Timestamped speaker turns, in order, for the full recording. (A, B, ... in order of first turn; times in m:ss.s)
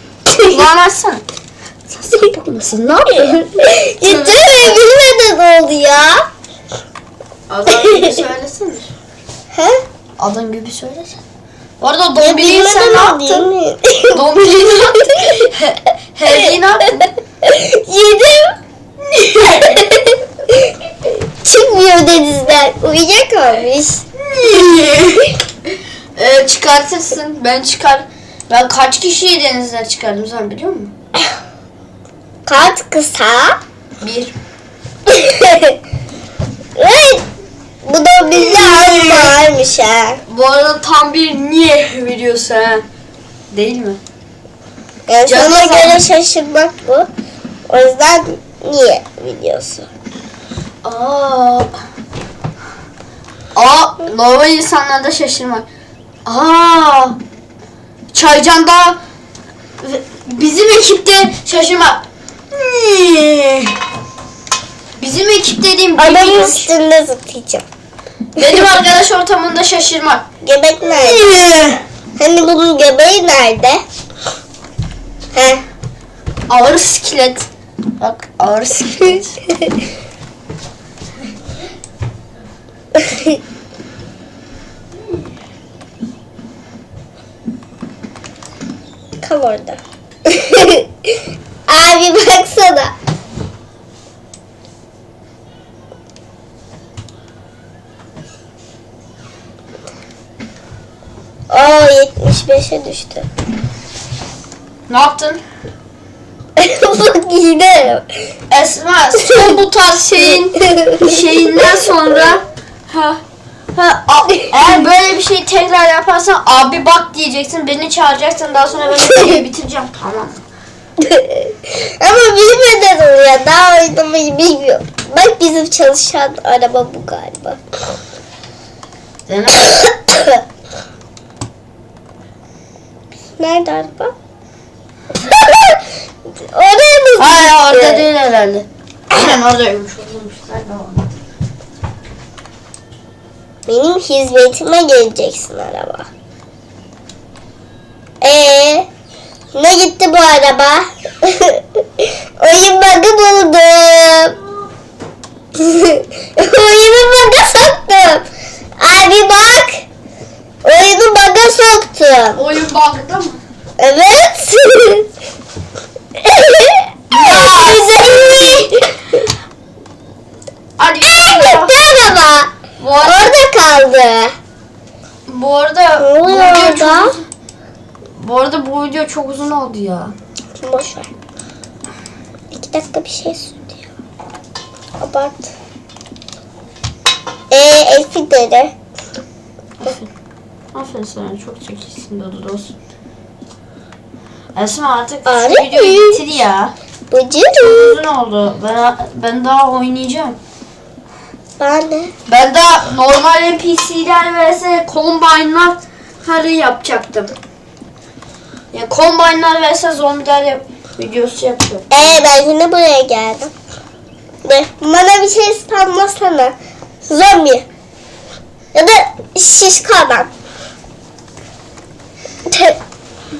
0:00.4-0:01.2 A
0:01.9-0:04.8 A
0:03.4-0:06.2 B
0:07.5-0:08.9 A
0:09.5-0:09.8 B
0:10.2-0:11.2 A
0:11.8-0:13.5 A
0:12.2-0:14.2 B
0:14.1-0:17.1 A
0:17.4-0:18.6 B
0:19.0-0:19.9 A
0:19.6-0:19.9 B
0:21.4-0:24.0 B
0:24.2-0:25.4 A
0:26.1-0:30.9 A
0:32.4-0:33.6 B
0:34.0-0:34.3 A
0:35.1-0:35.8 B
0:36.8-0:37.2 B
0:37.8-0:40.2 B
0:38.3-0:39.3 A
0:40.3-0:42.8 A
0:43.5-0:44.0 A
0:45.1-0:47.1 B
0:45.2-0:46.0 A
0:47.7-0:49.9 B
0:50.8-0:51.7 A
0:53.5-0:55.6 A
0:56.2-0:57.2 A
0:58.1-0:59.0 A
0:59.8-1:03.7 A
1:05.0-1:06.7 A
1:06.0-1:07.6 B
1:08.4-1:10.2 A
1:10.4-1:11.3 B
1:10.9-1:11.8 A
1:12.2-1:13.8 B
1:15.3-1:15.6 B
1:16.5-1:19.5 A
1:23.0-1:23.4 B
1:29.2-1:31.1 B
1:31.7-1:32.9 B
1:41.5-1:43.3 B
1:44.9-1:45.4 A
1:46.6-1:48.1 B
1:48.5-1:53.2 A
1:50.7-1:51.2 B
1:53.7-2:00.4 A
2:01.0-2:07.6 B
2:09.3-2:09.9 A
2:13.4-2:14.1 B
2:15.3-2:15.8 B
2:16.4-2:18.0 B
2:17.2-2:21.1 A
2:23.7-2:26.1 B
2:28.2-2:28.9 B
2:29.5-2:34.4 B
2:35.6-2:38.2 B
2:38.8-2:39.8 B
2:40.6-2:42.4 B
2:42.4-2:43.4 A
2:43.8-2:45.1 B
2:46.2-2:49.2 B
2:47.1-2:48.7 A
2:50.8-2:51.8 A
2:51.0-2:54.3 B
2:52.8-2:53.3 A
2:55.3-2:57.2 A
2:56.0-2:57.2 B
2:58.2-3:00.1 A
3:00.6-3:01.1 B
3:02.5-3:03.8 B
3:05.0-3:05.5 B
3:07.5-3:08.7 B
3:09.8-3:10.1 A
3:10.7-3:12.7 A
3:14.5-3:16.7 A
3:15.2-3:16.2 B
3:17.1-3:18.0 B
3:17.6-3:20.4 A
3:21.6-3:22.1 B
3:22.3-3:27.3 A
3:28.7-3:32.2 A
3:31.9-3:33.5 B
3:34.4-3:37.6 B
3:38.7-3:40.3 B
3:42.5-3:42.8 B